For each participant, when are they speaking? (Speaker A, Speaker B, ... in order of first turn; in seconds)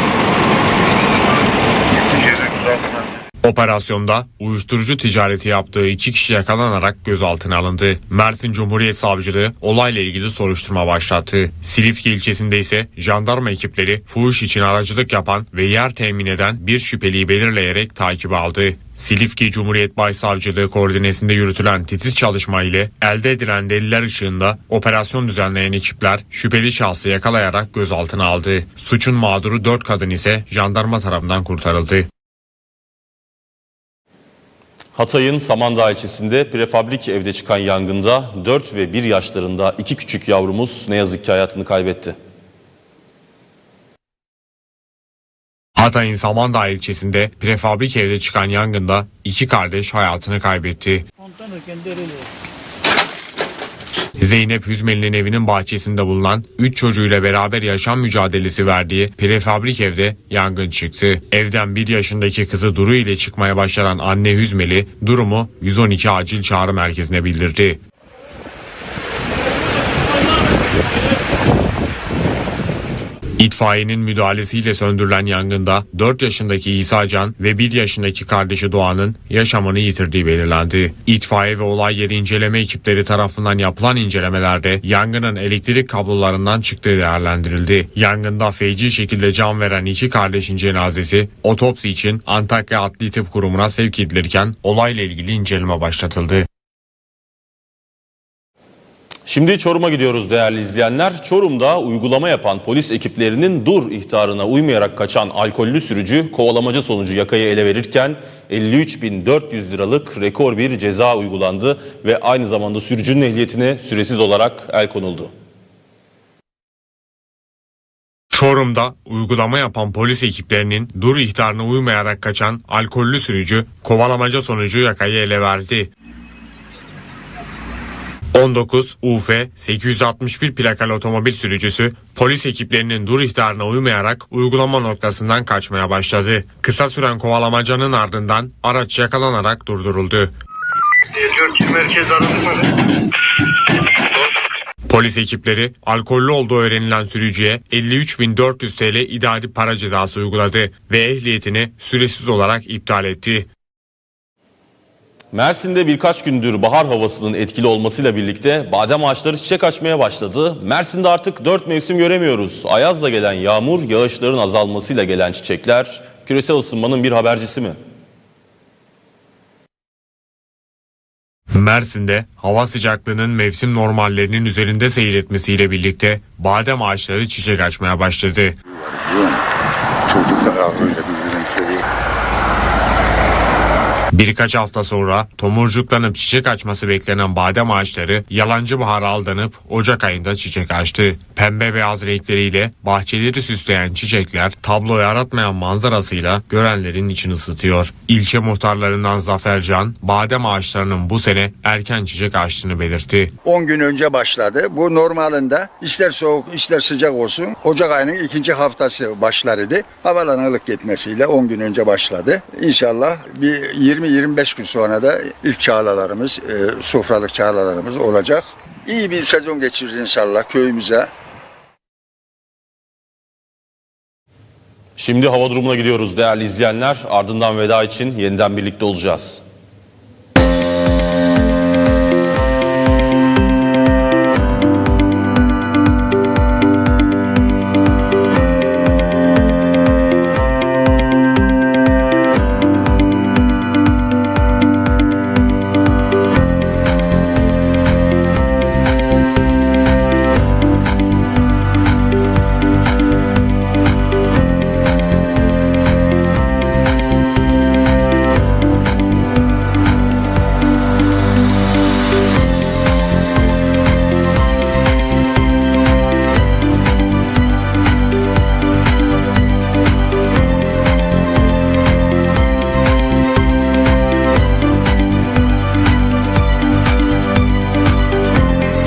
Speaker A: 3.4-32.1, 45.8-51.1, 54.2-67.8, 73.4-96.5, 118.3-125.9, 128.3-140.3, 141.5-142.6, 144.8-153.5, 171.5-178.6, 184.1-203.3
Speaker B: 34.9-42.1, 99.2-115.3, 155.3-167.8, 225.0-229.4
Speaker C: 178.8-179.4, 180.1-181.8, 203.4-221.1